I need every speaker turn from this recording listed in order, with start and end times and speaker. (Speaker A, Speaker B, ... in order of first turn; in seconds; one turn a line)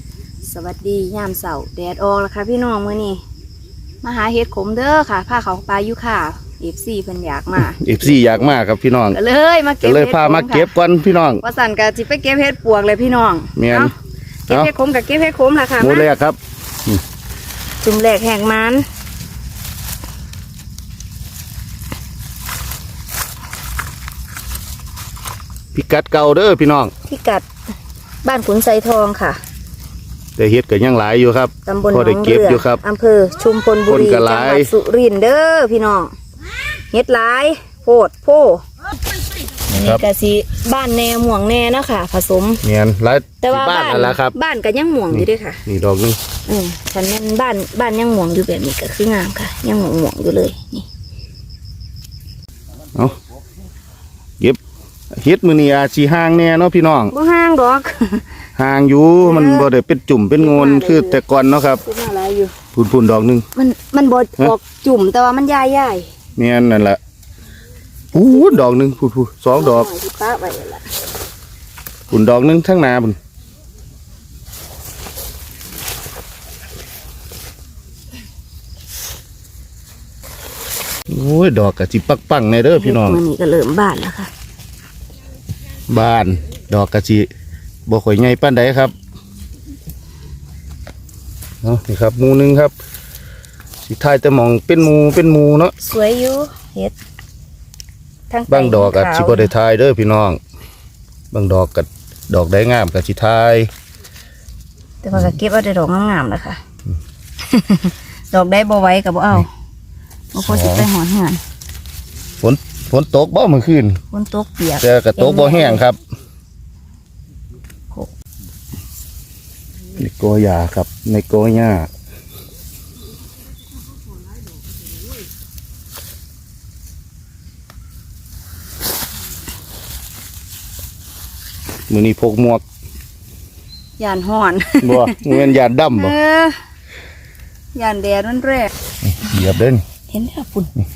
Speaker A: 0.4-3.2
Speaker A: 4.0-7.8
Speaker B: 7.6-9.2
Speaker A: 9.1-10.8
Speaker B: 9.8-11.4
Speaker A: 11.4-13.9
Speaker B: 13.6-13.9
Speaker A: 14.5-16.1
Speaker B: 15.8-17.0
Speaker A: 17.8-18.9
Speaker B: 25.7-26.9
Speaker A: 27.1-27.4
Speaker A: 28.2-29.4
Speaker B: 30.4-32.8
Speaker A: 31.7-36.1
Speaker B: 33.9-34.7
Speaker A: 36.9-38.6
Speaker A: 39.6-42.6
Speaker B: 39.7-40.0
Speaker B: 42.6-44.3
Speaker A: 43.4-45.6
Speaker B: 45.1-46.2
Speaker A: 46.5-50.9
Speaker B: 55.1-57.1
Speaker A: 57.1-58.2
Speaker B: 58.6-61.8
Speaker A: 59.2-59.7
Speaker A: 60.4-61.2
Speaker A: 61.8-62.5
Speaker B: 62.8-63.5
Speaker A: 63.6-66.1
Speaker B: 66.4-67.0
Speaker B: 68.1-69.9
Speaker A: 69.5-70.9
Speaker B: 72.1-73.2
Speaker B: 81.1-83.2
Speaker A: 82.7-84.3
Speaker B: 85.9-87.3
Speaker B: 87.9-88.9
Speaker B: 91.6-92.7
Speaker B: 93.8-95.7
Speaker A: 95.8-96.9
Speaker A: 98.3-99.5
Speaker B: 98.5-100.4
Speaker B: 101.3-103.7
Speaker A: 105.0-106.6
Speaker A: 107.5-109.5
Speaker A: 110.3-111.4
Speaker B: 110.4-110.9
Speaker B: 112.4-114.0
Speaker A: 114.1-115.8
Speaker B: 114.8-116.0
Speaker B: 120.0-121.9
Speaker B: 131.9-132.6
Speaker A: 134.0-136.6
Speaker B: 134.8-136.2
Speaker A: 137.8-138.7
Speaker B: 139.0-139.8
Speaker A: 140.1-140.7